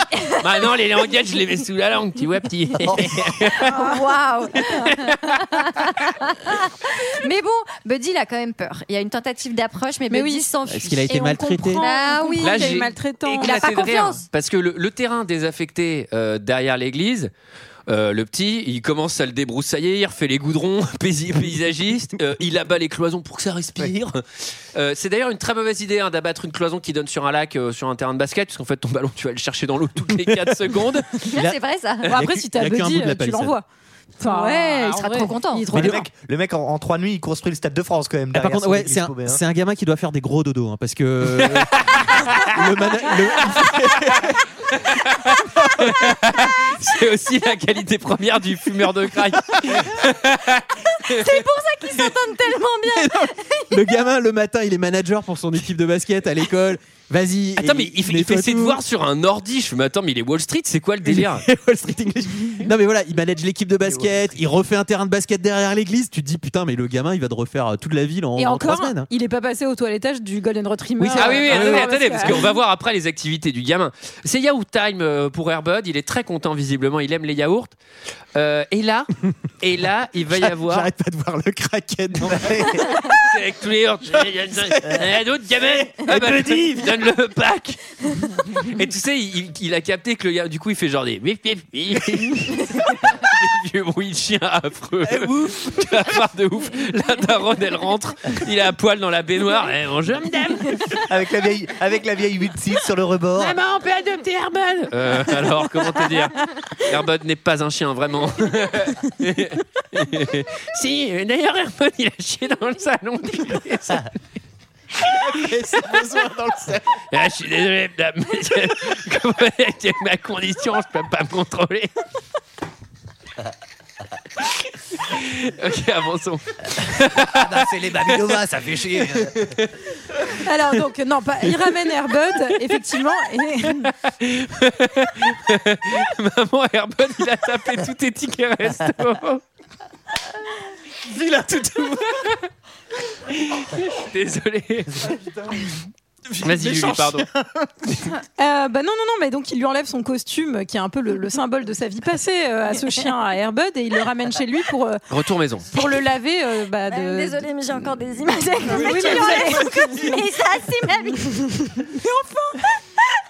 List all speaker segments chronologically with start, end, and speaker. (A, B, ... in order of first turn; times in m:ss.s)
0:00.4-0:03.8 A
0:03.6-0:14.2 B
0:03.7-0:04.1 C
0:04.7-0:05.1 A
0:10.1-0:10.5 C
0:10.7-0:11.8 D
0:11.1-0:13.8 C
0:12.4-0:17.3 A
0:17.9-0:31.1 A
0:30.1-0:30.5 D
0:31.3-0:32.1 B
0:32.0-0:33.6 C
0:32.1-0:33.6 D
0:34.2-0:36.0 C
0:34.2-0:35.9 B
0:35.7-0:39.4 E
0:35.7-0:36.0 D
0:38.3-0:44.4 D
0:41.4-0:42.5 A
0:44.7-0:51.4 A
0:45.6-0:46.0 D
0:49.6-0:50.0 D
0:51.1-0:53.1 B
0:52.9-0:58.8 D
0:57.6-1:01.4 A
1:01.0-1:09.1 D
1:03.9-1:04.4 E
1:08.4-1:12.5 C
1:11.0-1:12.5 D
1:11.1-1:17.8 A
1:18.3-1:19.1 A
1:19.6-1:20.9 A
1:20.4-1:23.2 D
1:22.3-1:22.9 E
1:23.2-1:27.8 A
1:24.4-1:25.1 D
1:25.9-1:26.9 D
1:28.6-1:41.0 A
1:35.3-1:35.5 E
1:41.0-1:43.6 E
1:43.4-1:54.1 A
1:55.0-1:56.0 A
1:55.0-1:56.8 D
1:57.1-2:01.9 A
2:04.4-2:08.4 A
2:07.2-2:09.5 E
2:09.0-2:09.8 A
2:10.4-2:13.9 C
2:13.7-2:19.4 A
2:21.1-2:21.9 D
2:21.5-2:22.5 A
2:23.3-2:25.1 A
2:26.3-2:28.0 D
2:26.4-2:27.3 A
2:28.4-2:35.0 C
2:35.1-2:35.6 A
2:35.7-2:37.5 C
2:36.9-2:41.5 B
2:38.2-2:40.3 C
2:41.3-2:42.7 C